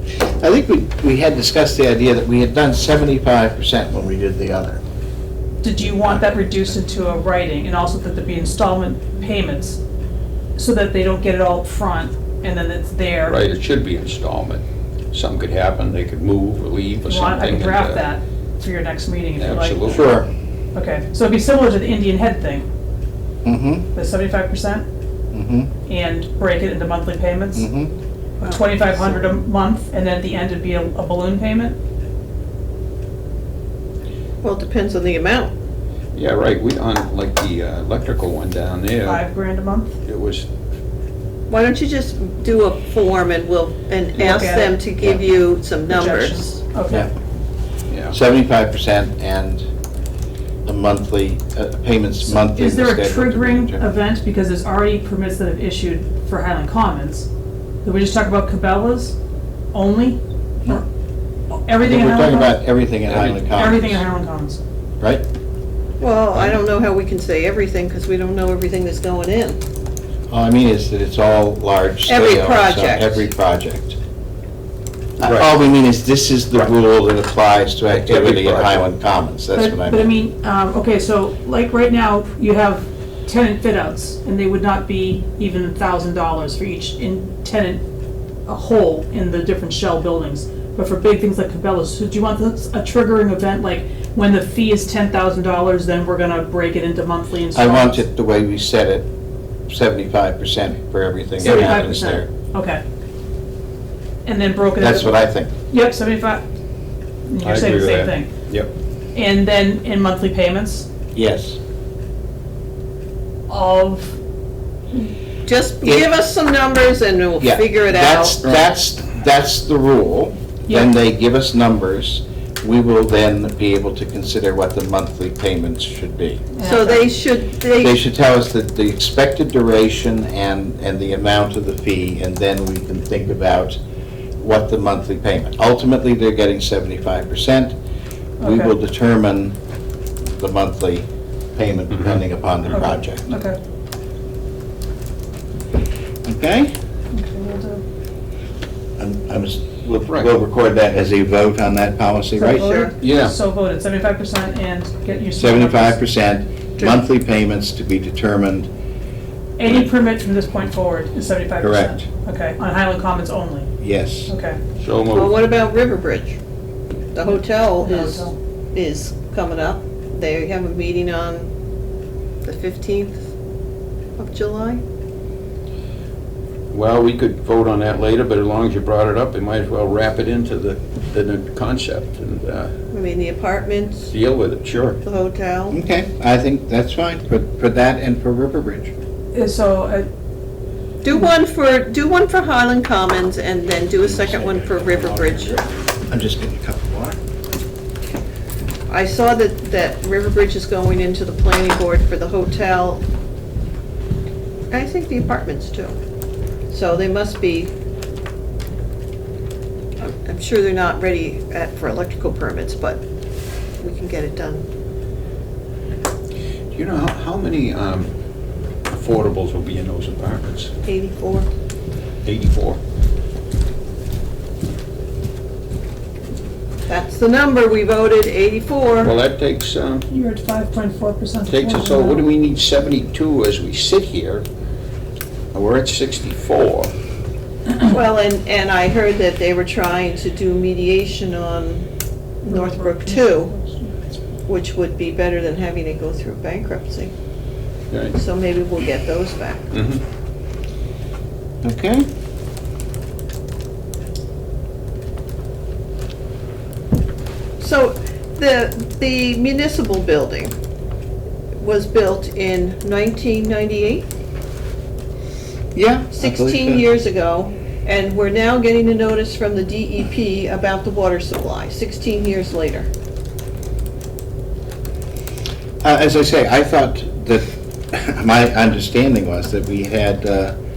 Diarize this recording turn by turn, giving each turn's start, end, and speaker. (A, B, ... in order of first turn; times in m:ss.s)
0:00.4-0:04.8 A
0:05.6-0:09.8 B
0:05.8-0:06.2 A
0:10.6-0:13.4 B
0:13.3-0:18.1 C
0:17.1-0:20.1 B
0:19.4-0:20.2 C
0:19.9-0:20.3 A
0:20.7-0:22.6 B
0:23.4-0:23.9 A
0:23.9-0:24.8 B
0:25.3-0:25.7 A
0:25.9-0:27.7 B
0:27.5-0:27.9 A
0:28.4-0:31.8 B
0:28.4-0:29.3 D
0:34.4-0:35.5 D
0:36.1-0:39.2 C
0:39.0-0:40.0 B
0:40.0-0:40.4 C
0:41.5-0:46.4 D
0:44.2-0:44.8 B
0:45.9-0:47.1 B
0:47.9-0:48.2 C
0:48.1-0:49.7 A
0:50.6-0:53.8 A
0:52.2-0:57.3 B
0:57.8-0:59.2 B
0:59.7-1:00.8 B
1:01.5-1:02.6 B
1:01.8-1:04.0 A
1:03.1-1:03.4 C
1:03.5-1:04.6 B
1:06.0-1:09.6 D
1:10.3-1:14.0 A
1:12.1-1:13.2 D
1:15.2-1:20.1 A
1:15.2-1:15.5 C
1:17.9-1:18.8 C
1:19.5-1:27.8 B
1:28.4-1:38.0 B
1:37.5-1:39.1 A
1:39.7-1:42.3 A
1:41.4-1:42.8 B
1:44.2-1:46.4 B
1:44.8-1:45.5 A
1:47.3-1:48.3 B
1:47.4-1:48.7 C
1:49.1-1:50.9 B
1:51.1-1:51.6 A
1:53.5-1:54.2 B
1:55.4-1:58.6 D
1:55.8-1:56.1 A
1:57.4-2:06.4 A
2:06.5-2:07.1 B
2:06.6-2:08.0 D
2:07.8-2:13.8 A
2:14.4-2:17.8 A
2:18.4-2:18.7 B
2:18.4-2:19.6 A
2:20.3-2:23.3 A
2:21.9-2:22.2 C
2:22.7-2:23.6 B
2:26.2-2:26.7 A
2:27.1-2:27.8 B
2:29.0-2:32.8 A
2:32.4-2:36.0 B
2:32.5-2:32.9 D
2:33.0-2:33.3 C
2:35.4-2:38.7 A
2:39.6-2:43.7 B
2:41.6-2:42.0 A
2:43.8-2:44.3 A
2:44.3-2:44.6 B
2:44.8-2:45.4 C
2:45.1-2:46.4 D
2:47.1-2:51.5 D
2:47.8-2:48.4 B
2:52.4-2:53.3 D
2:54.2-2:54.8 D
2:56.7-3:02.7 C
3:02.9-3:04.1 D
3:04.1-3:05.0 C
3:05.0-3:05.8 D
3:05.7-3:08.9 A
3:09.3-3:10.1 B
3:11.0-3:15.6 D
3:14.0-3:17.2 A
3:18.9-3:23.0 D
3:24.7-3:26.0 D
3:26.7-3:27.7 D
3:30.0-3:33.0 D
3:33.8-3:34.6 D
3:36.7-3:38.1 C
3:38.9-3:40.7 C
3:40.8-3:41.5 D
3:42.2-3:42.8 C
3:46.9-3:49.1 D
3:49.0-3:50.0 C
3:50.1-3:52.3 B
3:51.5-3:54.4 C
3:55.5-3:56.9 C
3:57.8-4:01.9 D
4:02.4-4:03.5 D
4:02.4-4:04.2 B
4:04.5-4:07.1 D
4:07.9-4:08.2 C
4:08.1-4:09.7 D
4:09.7-4:10.0 C
4:11.6-4:12.1 A
4:17.6-4:20.5 D
4:21.6-4:24.1 D
4:25.7-4:26.8 A
4:26.1-4:32.9 D
4:35.8-4:40.5 A